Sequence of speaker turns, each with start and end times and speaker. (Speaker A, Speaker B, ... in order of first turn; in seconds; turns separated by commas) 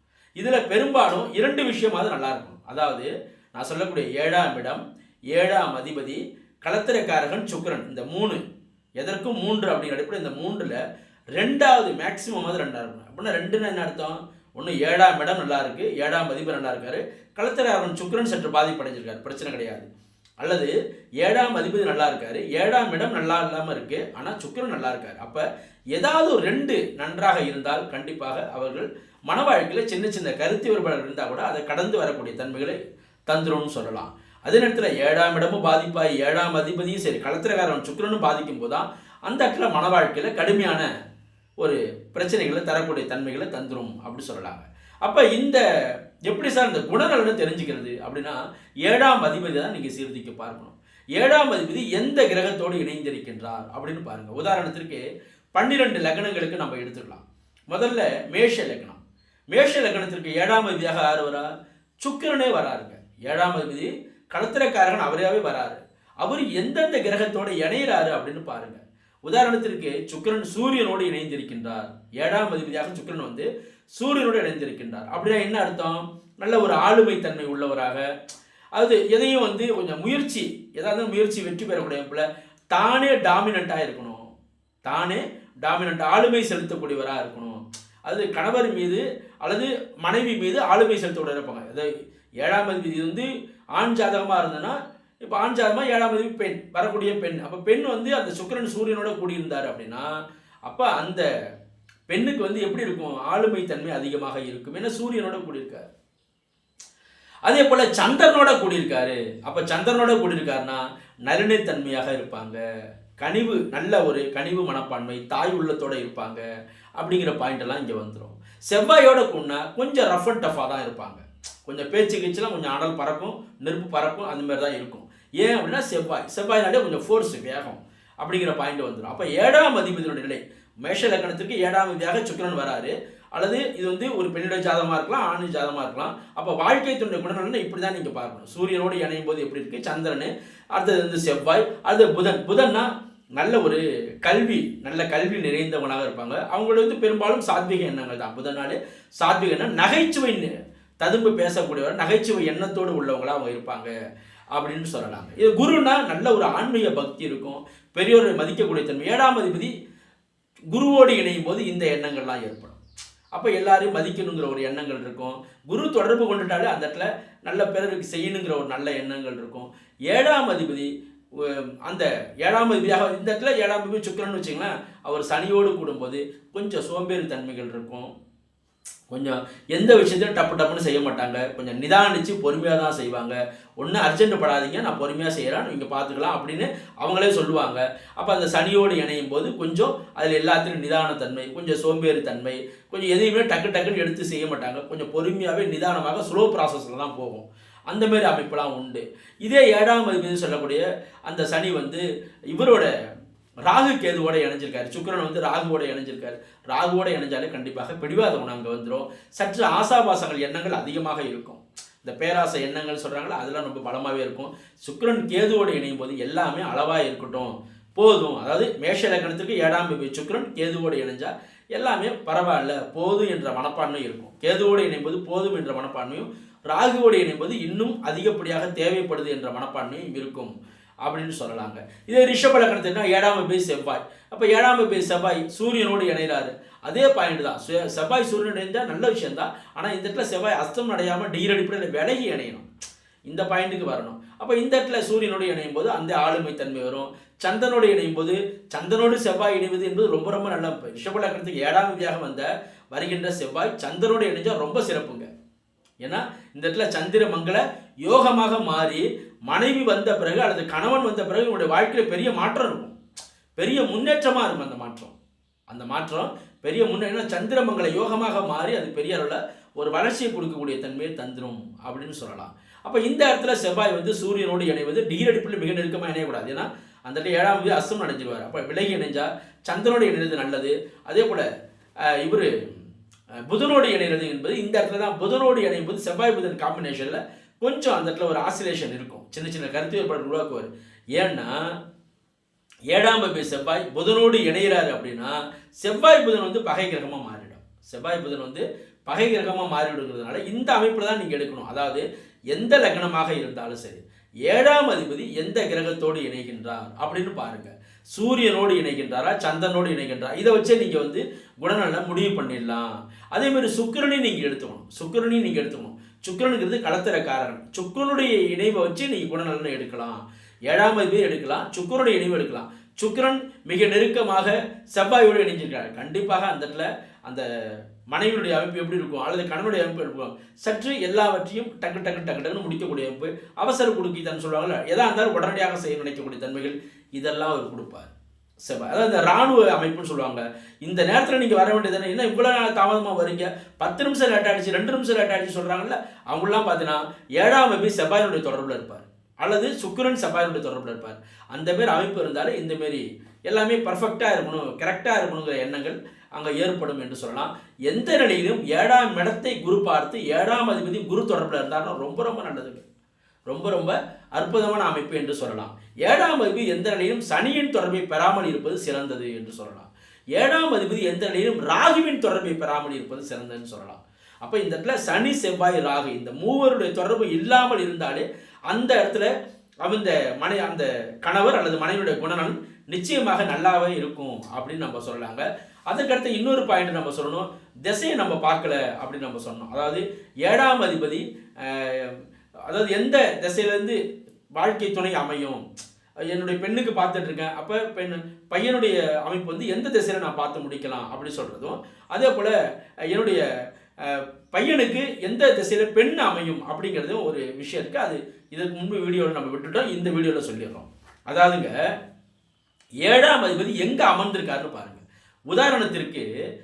Speaker A: 0.4-8.4, Speaker A: 9.0-10.8, Speaker A: 11.3-19.9, Speaker A: 20.4-25.4, Speaker A: 25.9-40.9, Speaker A: 41.6-45.6, Speaker A: 46.3-55.0, Speaker A: 55.5-59.0, Speaker A: 59.5-61.5, Speaker A: 62.0-78.1, Speaker A: 78.7-84.2, Speaker A: 84.8-91.9, Speaker A: 92.4-100.1, Speaker A: 100.7-101.2, Speaker A: 102.1-105.8, Speaker A: 107.5-112.6, Speaker A: 113.2-116.4, Speaker A: 117.0-150.5, Speaker A: 151.0-153.9, Speaker A: 154.5-159.7, Speaker A: 160.7-162.8, Speaker A: 163.3-178.1, Speaker A: 179.1-202.9, Speaker A: 203.7-230.5, Speaker A: 231.0-242.7, Speaker A: 243.3-255.3, Speaker A: 256.0-262.9, Speaker A: 263.6-265.1, Speaker A: 265.7-281.5, Speaker A: 282.1-282.5, Speaker A: 283.4-291.5, Speaker A: 292.9-327.5, Speaker A: 328.1-338.1, Speaker A: 338.6-362.8, Speaker A: 363.5-379.3, Speaker A: 379.8-394.0, Speaker A: 394.6-395.6, Speaker A: 396.3-402.5, Speaker A: 403.1-403.4, Speaker A: 404.0-411.7, Speaker A: 413.0-416.2